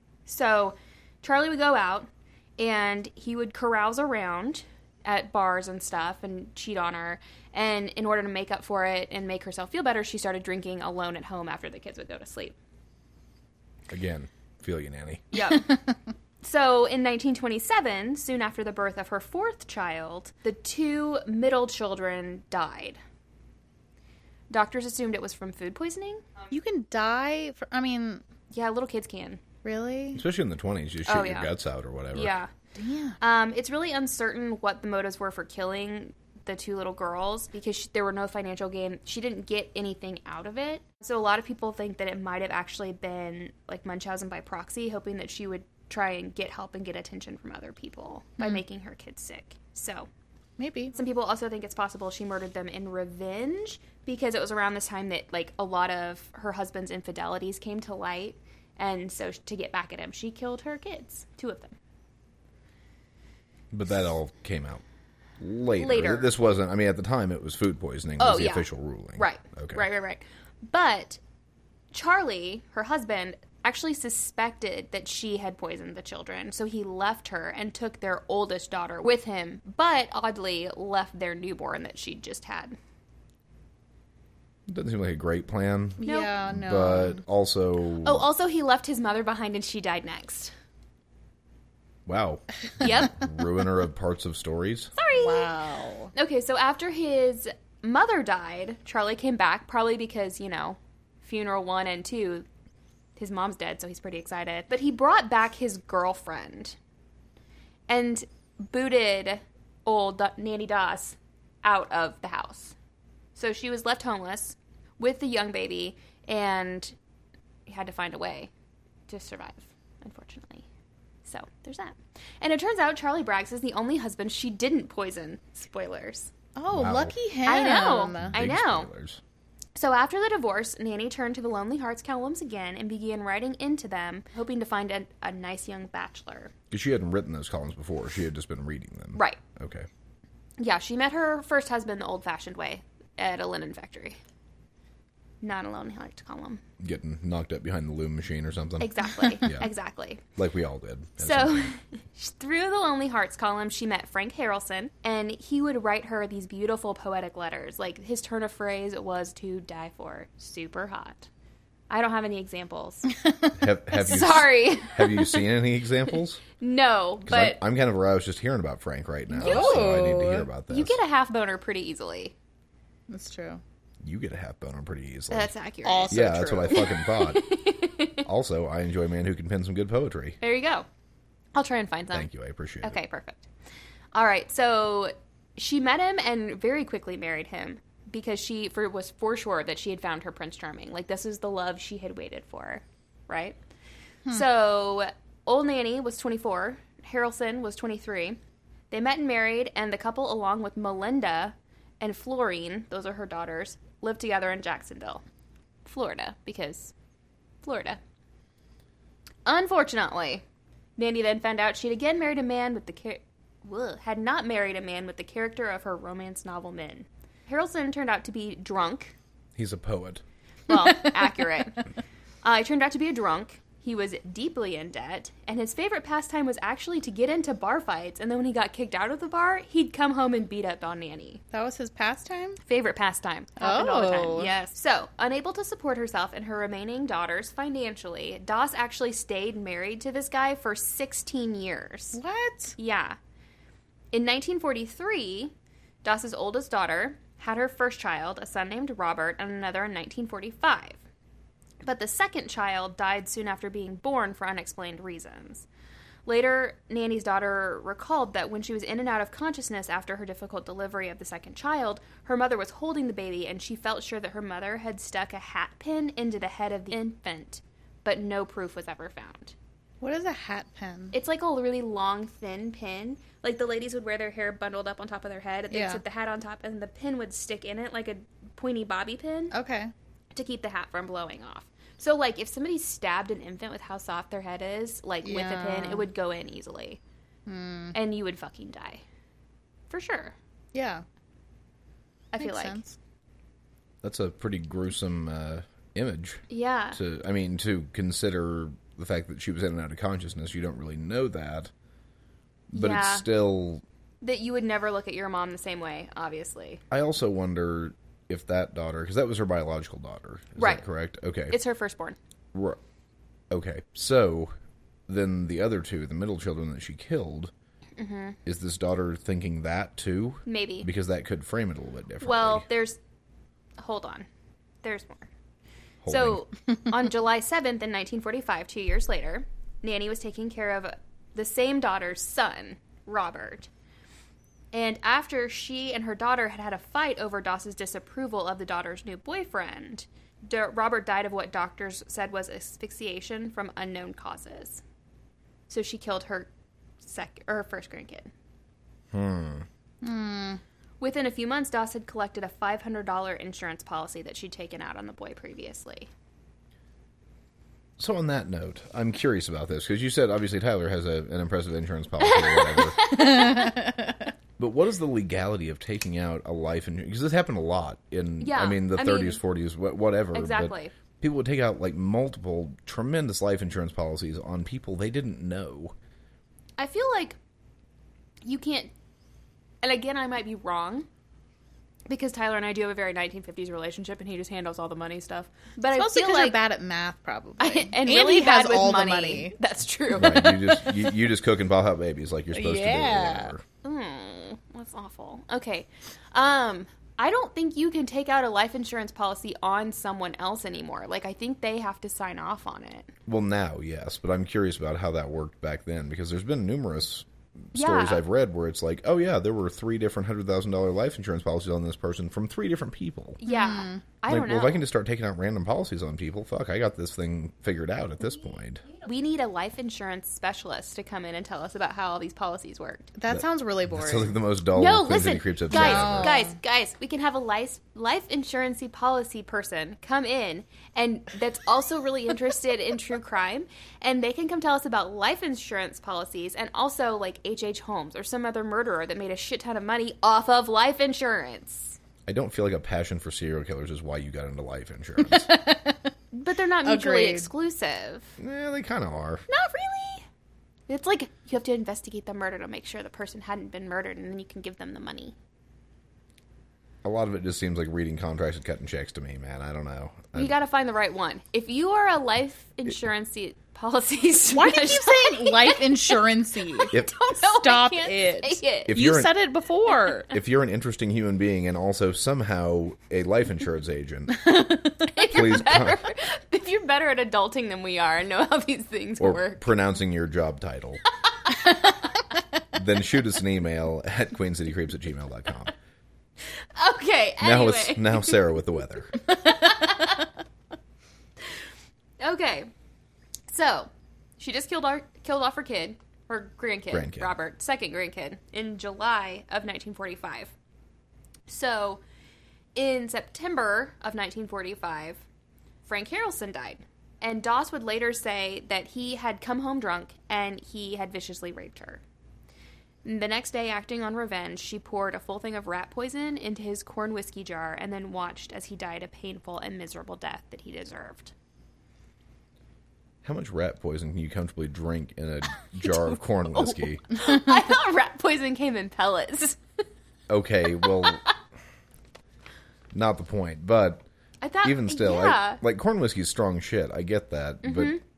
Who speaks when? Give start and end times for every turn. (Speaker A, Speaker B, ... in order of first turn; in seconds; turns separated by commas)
Speaker A: 0.3-12.6, Speaker B: 13.9-15.2, Speaker A: 15.3-15.7, Speaker A: 16.4-23.0, Speaker A: 24.5-26.3, Speaker C: 26.5-28.2, Speaker A: 28.5-29.4, Speaker C: 29.6-30.2, Speaker B: 30.1-32.4, Speaker A: 31.1-31.5, Speaker A: 32.1-32.5, Speaker C: 32.8-33.2, Speaker A: 33.2-50.1, Speaker C: 50.6-50.9, Speaker A: 50.9-61.8, Speaker B: 63.7-64.8, Speaker B: 65.4-69.8, Speaker A: 65.8-66.3, Speaker A: 68.2-71.2, Speaker A: 71.9-82.8, Speaker B: 84.7-88.3, Speaker C: 86.0-87.2, Speaker A: 86.0-86.3, Speaker A: 88.0-90.5, Speaker B: 92.1-94.9, Speaker A: 92.8-93.2, Speaker A: 95.0-95.5, Speaker C: 95.2-96.1, Speaker A: 96.1-102.5, Speaker A: 103.2-106.8, Speaker A: 107.9-112.8, Speaker A: 113.3-117.0, Speaker A: 117.7-118.5, Speaker A: 119.1-120.7, Speaker A: 121.2-126.3, Speaker C: 126.6-128.3, Speaker B: 126.7-127.2, Speaker A: 127.5-128.9, Speaker B: 128.2-129.2, Speaker A: 129.8-136.5, Speaker B: 136.7-139.9, Speaker A: 139.2-139.4, Speaker A: 140.6-144.2, Speaker A: 145.4-146.6, Speaker B: 146.8-149.7, Speaker A: 148.8-150.2, Speaker B: 150.4-151.7, Speaker A: 151.2-161.3, Speaker A: 161.9-163.1, Speaker C: 163.2-163.5, Speaker B: 163.6-166.4, Speaker A: 163.9-165.4, Speaker A: 166.6-167.6, Speaker B: 167.3-171.0, Speaker A: 169.3-170.1, Speaker C: 169.4-170.5, Speaker A: 170.7-172.3, Speaker C: 173.1-173.6, Speaker B: 174.0-175.5, Speaker A: 175.3-178.2, Speaker C: 175.8-176.9, Speaker B: 176.1-177.5, Speaker B: 178.2-180.4, Speaker A: 180.4-180.9, Speaker A: 181.5-182.3, Speaker B: 182.1-183.0, Speaker A: 182.8-183.5, Speaker A: 184.1-193.6, Speaker A: 194.3-198.4, Speaker A: 198.9-205.2, Speaker A: 205.8-206.9, Speaker A: 207.6-208.0, Speaker A: 209.4-210.4, Speaker A: 211.0-219.2, Speaker B: 219.6-220.2, Speaker A: 220.7-221.8, Speaker A: 222.4-231.4, Speaker C: 231.5-232.6, Speaker A: 232.7-242.2, Speaker C: 233.6-234.5, Speaker C: 242.1-242.8, Speaker A: 242.8-243.2, Speaker A: 244.1-245.5, Speaker A: 246.0-251.0, Speaker A: 251.8-255.7, Speaker A: 256.3-269.6, Speaker C: 270.0-271.1, Speaker A: 271.1-279.5, Speaker C: 275.7-276.0, Speaker C: 279.5-279.9, Speaker A: 280.3-287.0, Speaker C: 285.2-286.1, Speaker C: 287.5-287.9, Speaker A: 287.9-289.0, Speaker A: 289.9-290.4, Speaker C: 290.7-291.0, Speaker A: 292.3-292.9, Speaker C: 292.4-292.9, Speaker B: 294.0-301.7, Speaker A: 296.5-297.0, Speaker A: 302.7-303.3, Speaker B: 302.7-303.8, Speaker A: 304.2-306.8, Speaker B: 306.9-311.6, Speaker A: 310.6-310.9, Speaker A: 311.5-312.2, Speaker B: 312.5-312.8, Speaker B: 313.5-314.5, Speaker B: 315.1-317.5, Speaker A: 318.0-318.4, Speaker B: 318.5-322.6, Speaker A: 320.5-320.9, Speaker A: 322.2-323.0, Speaker A: 323.8-324.3, Speaker A: 324.8-325.3, Speaker B: 326.0-326.4, Speaker A: 326.1-333.7, Speaker A: 334.7-344.8, Speaker A: 345.7-346.5, Speaker A: 347.0-348.3, Speaker B: 349.1-349.7, Speaker C: 350.0-350.6, Speaker A: 351.0-356.1, Speaker B: 358.0-363.0, Speaker A: 362.2-363.8, Speaker C: 363.1-364.2, Speaker B: 364.6-375.9, Speaker A: 368.4-369.4, Speaker A: 370.3-370.9, Speaker A: 376.8-377.4, Speaker A: 378.4-378.9, Speaker A: 379.8-381.1, Speaker A: 382.1-386.6, Speaker C: 385.9-389.6, Speaker A: 387.6-390.6, Speaker B: 390.2-393.6, Speaker C: 392.5-393.5, Speaker A: 393.8-403.1, Speaker B: 403.3-413.4, Speaker A: 407.7-408.2, Speaker A: 413.4-414.9, Speaker C: 413.5-414.0, Speaker B: 414.3-418.9, Speaker A: 419.0-423.1, Speaker C: 423.2-424.3, Speaker B: 423.3-426.4, Speaker A: 424.8-442.0, Speaker C: 425.7-426.5, Speaker B: 442.3-445.5, Speaker C: 445.2-446.1, Speaker A: 446.3-448.4, Speaker C: 446.8-447.5, Speaker B: 448.4-449.4, Speaker A: 449.5-450.2, Speaker A: 450.9-455.4, Speaker B: 457.0-460.6, Speaker A: 460.4-469.0, Speaker C: 464.5-470.3, Speaker B: 468.9-469.4, Speaker B: 470.3-474.5, Speaker C: 474.5-474.7, Speaker A: 475.1-479.7, Speaker B: 475.2-476.0, Speaker B: 479.2-481.0, Speaker B: 482.7-485.7, Speaker A: 486.8-488.4, Speaker B: 487.4-489.2, Speaker A: 489.3-490.3, Speaker A: 492.2-492.7, Speaker A: 493.5-500.5, Speaker B: 496.9-497.3, Speaker A: 501.5-502.0, Speaker A: 502.8-505.2, Speaker A: 505.8-512.0, Speaker A: 513.0-521.3, Speaker B: 523.2-527.0, Speaker A: 526.6-529.6, Speaker B: 530.3-531.3, Speaker B: 532.9-534.1, Speaker A: 534.4-535.6, Speaker B: 534.6-538.0, Speaker A: 537.6-538.0